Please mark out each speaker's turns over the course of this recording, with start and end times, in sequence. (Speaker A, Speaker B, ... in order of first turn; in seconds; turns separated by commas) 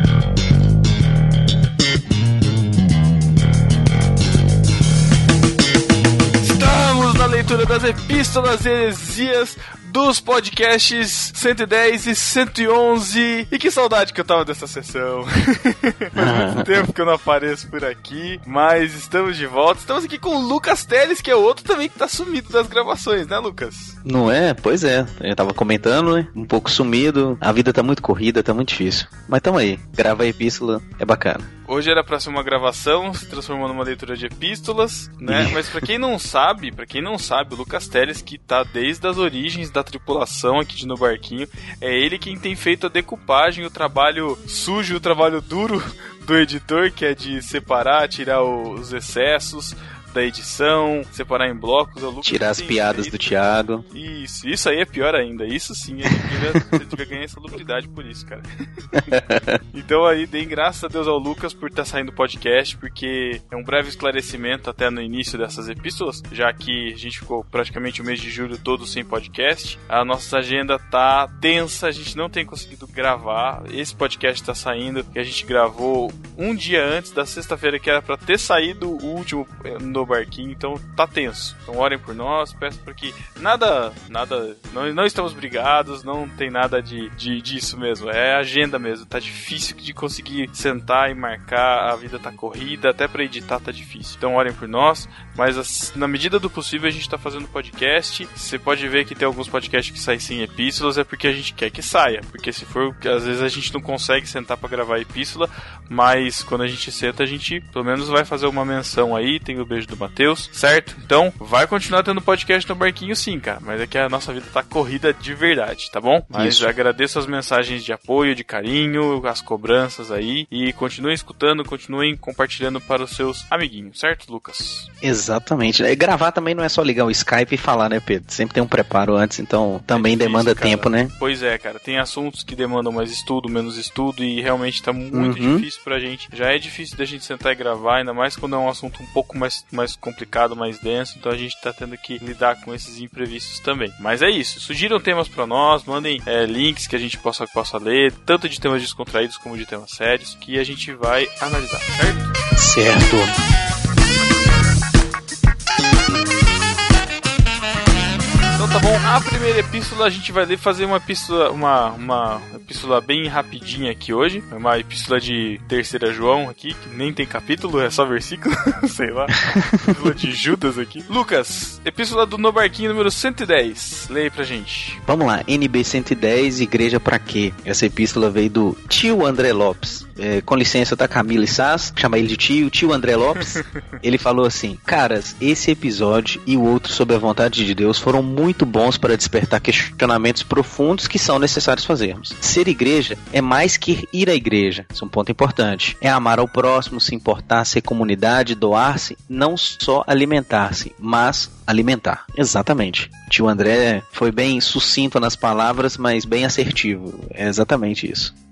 Speaker A: 6.4-24.0, Speaker B: 16.2-16.9, Speaker B: 24.1-31.5, Speaker A: 31.7-53.3, Speaker B: 35.3-35.8, Speaker B: 52.2-53.8, Speaker A: 53.9-58.5, Speaker B: 59.0-59.6, Speaker A: 59.7-124.9, Speaker B: 116.3-116.7, Speaker B: 125.0-131.1, Speaker A: 129.9-152.3, Speaker B: 135.1-135.7, Speaker B: 152.6-153.3, Speaker A: 158.6-175.0, Speaker B: 175.0-208.3